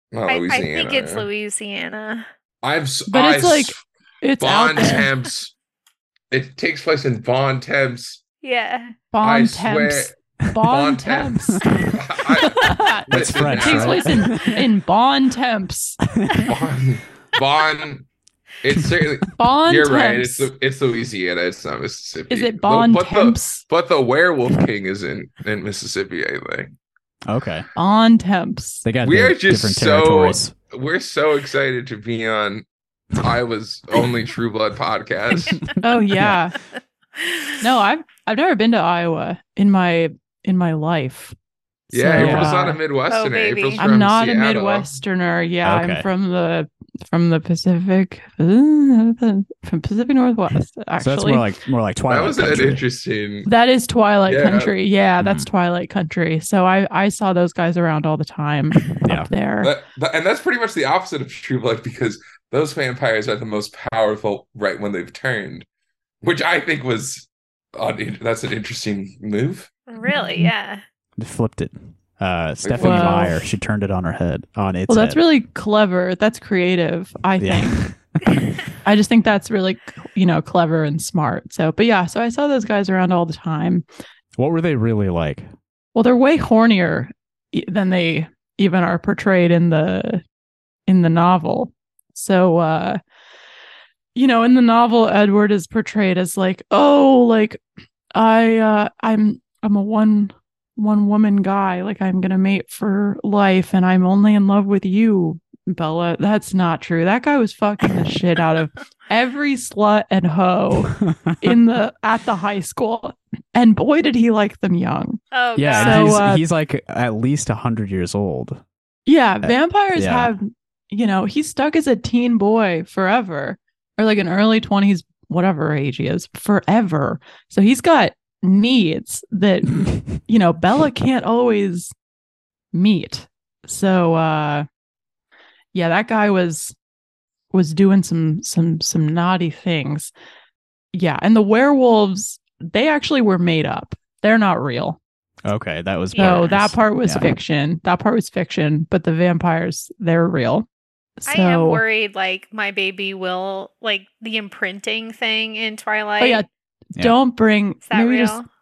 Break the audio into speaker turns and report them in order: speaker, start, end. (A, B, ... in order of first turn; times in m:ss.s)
0:00.1-0:01.3 A
0:00.3-0:02.3 B
0:02.6-0:03.8 A
0:03.1-0:05.1 C
0:04.4-0:05.5 A
0:06.3-0:08.2 A
0:08.4-0:09.0 B
0:09.1-0:11.6 C
0:09.2-0:14.2 A
0:12.4-0:16.0 C
0:13.1-0:14.7 D
0:16.2-0:16.5 D
0:16.5-0:18.1 A
0:18.6-0:26.7 A
0:19.4-0:20.5 C
0:22.3-0:23.6 C
0:27.3-0:27.7 D
0:27.8-0:28.8 C
0:28.8-0:30.5 D
0:29.0-0:35.7 A
0:35.8-0:36.6 C
0:37.2-0:37.6 B
0:37.6-0:41.4 C
0:41.9-0:42.8 C
0:41.9-0:44.9 A
0:42.1-0:42.7 D
0:43.1-0:43.8 B
0:43.8-0:51.5 C
0:45.6-0:46.1 D
0:51.0-0:52.8 D
0:52.1-0:53.5 A
0:53.5-0:59.7 C
0:54.3-0:54.7 A
0:55.2-0:55.5 D
0:59.0-0:59.3 D
0:59.6-1:05.7 A
1:06.2-1:09.7 A
1:09.9-1:10.8 B
1:10.0-1:10.5 C
1:11.2-1:15.2 D
1:12.6-1:13.4 A
1:12.8-1:13.4 C
1:14.9-1:17.8 C
1:17.4-1:18.2 D
1:18.8-1:23.8 C
1:24.4-1:25.5 D
1:26.0-1:30.2 C
1:30.9-1:33.0 C
1:34.2-1:37.6 C
1:38.1-1:55.2 C
1:55.3-1:56.3 B
1:55.6-1:58.6 D
1:55.7-1:56.4 C
1:59.1-2:11.9 C
1:59.4-2:00.3 D
2:12.7-2:14.7 C
2:15.7-2:16.8 C
2:17.5-2:20.1 C
2:20.9-2:25.0 C
2:25.5-2:27.3 D
2:26.1-2:26.5 B
2:26.2-2:30.7 C
2:31.2-2:31.8 C
2:31.3-2:36.4 B
2:36.2-2:38.4 C
2:37.9-2:38.5 B